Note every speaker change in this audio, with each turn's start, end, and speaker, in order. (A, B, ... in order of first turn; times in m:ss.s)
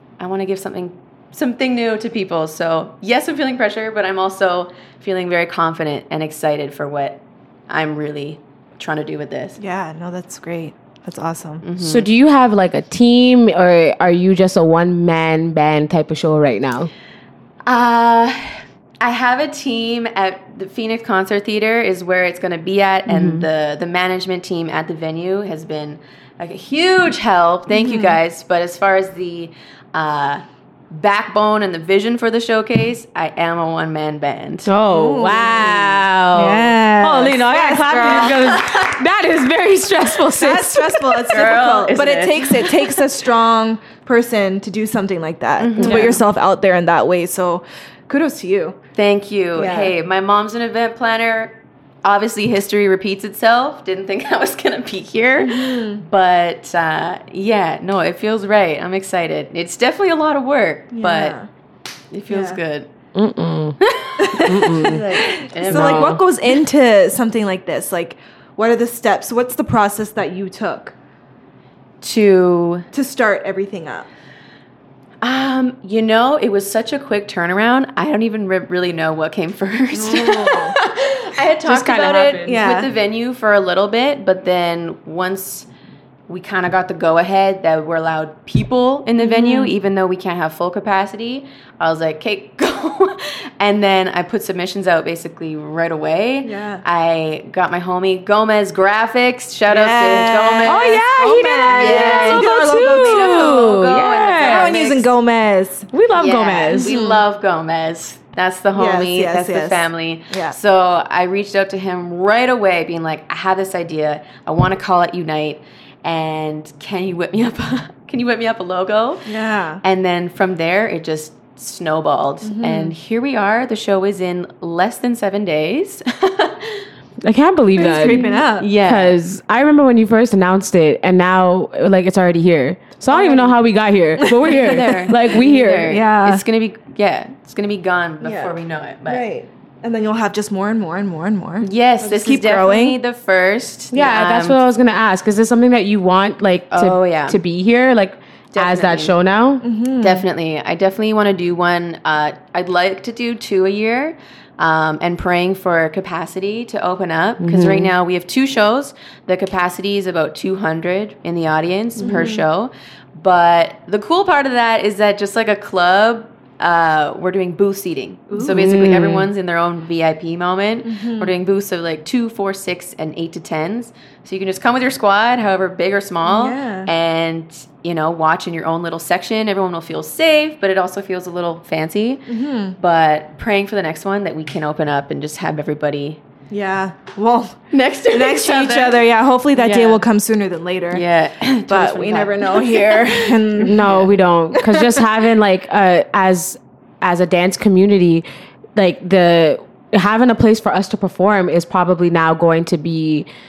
0:00.2-0:09.6 A
0:09.6-0:11.6 B
0:11.6-0:12.1 A
0:11.8-0:16.9 C
0:17.7-0:30.4 A
0:23.1-0:23.5 C
0:27.7-0:28.2 B
0:30.9-0:34.7 A
0:34.6-0:41.4 C
0:34.9-0:38.6 B
0:40.3-0:48.8 B
0:41.3-0:43.1 A
0:45.6-0:46.2 A
0:45.8-0:46.2 C
0:48.9-1:01.4 A
0:49.6-0:49.9 B
0:55.4-0:56.0 B
1:00.9-1:01.5 B
1:02.1-1:02.9 A
1:02.3-1:02.6 B
1:03.1-1:03.8 C
1:03.8-1:06.2 A
1:04.2-1:10.9 B
1:04.3-1:06.2 C
1:12.0-1:12.9 A
1:12.9-1:14.1 B
1:15.2-1:25.7 A
1:20.0-1:20.7 B
1:21.6-1:22.6 C
1:22.4-1:22.9 B
1:26.3-1:41.0 A
1:29.2-1:29.7 B
1:36.4-1:36.8 B
1:39.7-1:43.6 B
1:40.6-1:44.7 C
1:41.7-1:45.1 A
1:44.4-1:45.9 B
1:45.9-1:46.9 C
1:46.1-1:59.2 A
1:46.7-1:47.2 B
1:48.7-1:50.6 B
1:59.2-1:59.8 B
1:59.8-2:06.8 A
2:02.4-2:02.9 B
2:07.2-2:16.0 C
2:07.8-2:08.7 B
2:07.8-2:09.1 A
2:13.1-2:13.4 B
2:13.2-2:13.5 A
2:14.2-2:14.9 B
2:14.4-2:19.2 A
2:15.9-2:16.4 B
2:18.2-2:18.5 B
2:19.0-2:23.0 B
2:21.6-2:24.6 A
2:23.9-2:29.6 C
2:26.7-2:27.4 A
2:28.5-2:29.2 A
2:29.6-2:30.2 B
2:30.0-3:02.2 A
2:37.4-2:37.9 C
2:42.0-2:42.4 B
2:48.3-2:49.0 B
2:48.4-2:49.3 C
2:50.8-2:51.3 B
2:56.2-2:56.9 B
3:02.3-3:02.8 B
3:02.8-3:06.2 A
3:06.5-3:07.6 B
3:07.7-3:10.0 A
3:08.1-3:11.0 B
3:10.9-3:14.1 A
3:11.7-3:13.9 B
3:13.6-3:23.3 C